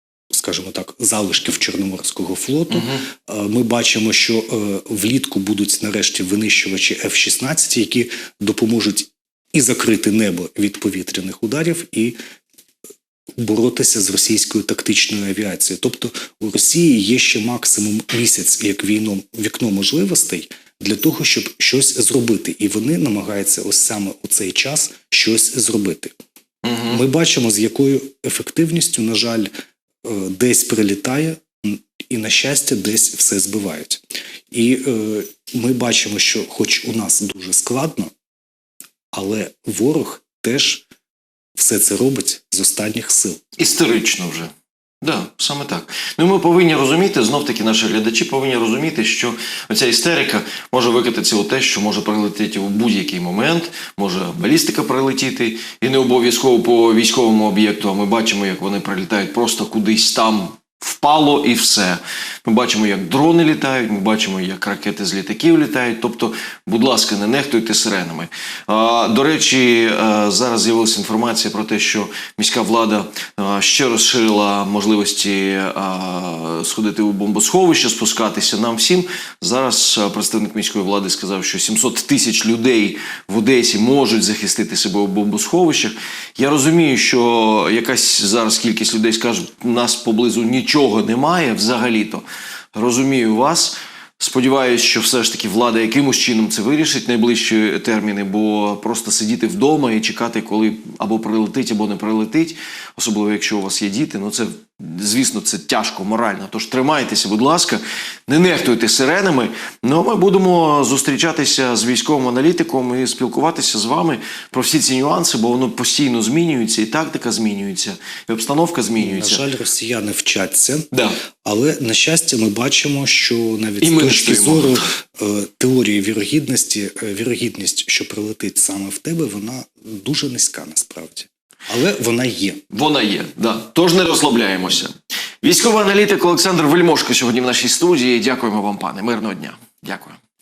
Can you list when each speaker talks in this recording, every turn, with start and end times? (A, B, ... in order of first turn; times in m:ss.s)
0:00.3-0:12.2 A
0:02.7-0:03.0 B
0:13.4-0:26.1 A
0:26.6-0:27.0 B
0:26.9-0:29.5 A
0:30.0-0:38.1 A
0:39.1-0:40.8 A
0:41.6-0:43.4 A
0:43.6-1:32.2 B
1:32.7-1:59.4 B
1:59.0-2:00.9 A
2:00.9-2:01.2 B
2:01.4-2:12.6 A
2:03.8-2:04.9 B
2:12.7-2:14.9 B
2:15.4-2:20.2 B